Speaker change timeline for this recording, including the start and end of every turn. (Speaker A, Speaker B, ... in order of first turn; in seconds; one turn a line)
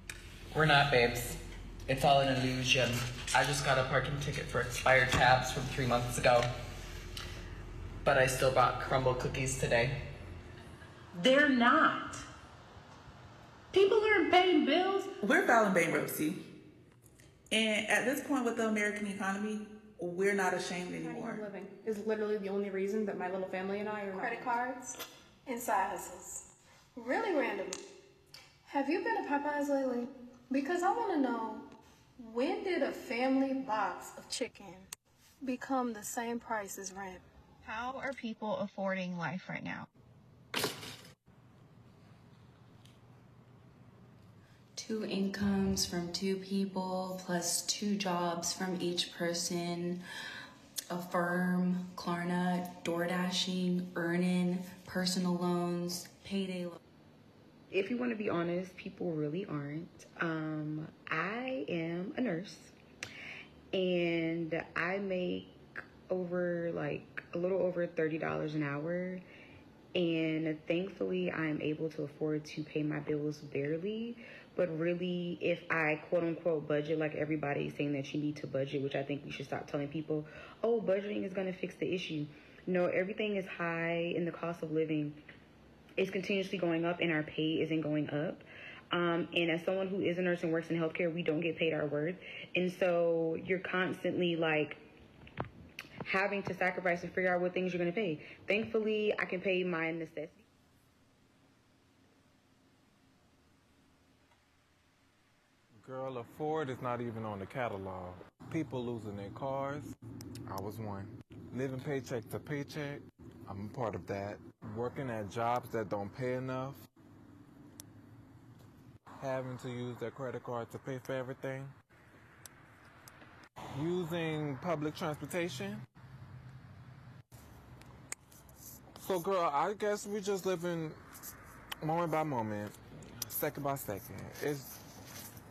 Speaker A: 0.5-6.5
Speaker A: 8.0-10.0
Speaker B: 11.1-12.2
Speaker B: 13.7-15.1
Speaker C: 15.2-16.4
Speaker C: 17.5-21.5
Speaker D: 21.1-24.6
Speaker E: 24.1-26.4
Speaker E: 26.9-27.8
Speaker E: 28.6-31.7
Speaker E: 32.2-34.9
Speaker E: 35.4-37.2
Speaker F: 37.6-39.9
Speaker G: 44.8-50.0
Speaker G: 50.9-56.8
Speaker H: 57.7-62.8
Speaker H: 63.7-65.6
Speaker H: 66.1-69.2
Speaker H: 70.0-85.2
Speaker H: 86.0-94.8
Speaker H: 96.0-100.4
Speaker I: 105.8-109.9
Speaker I: 110.5-116.8
Speaker I: 119.2-121.7
Speaker I: 123.7-125.8
Speaker I: 129.0-131.0
Speaker I: 131.8-134.8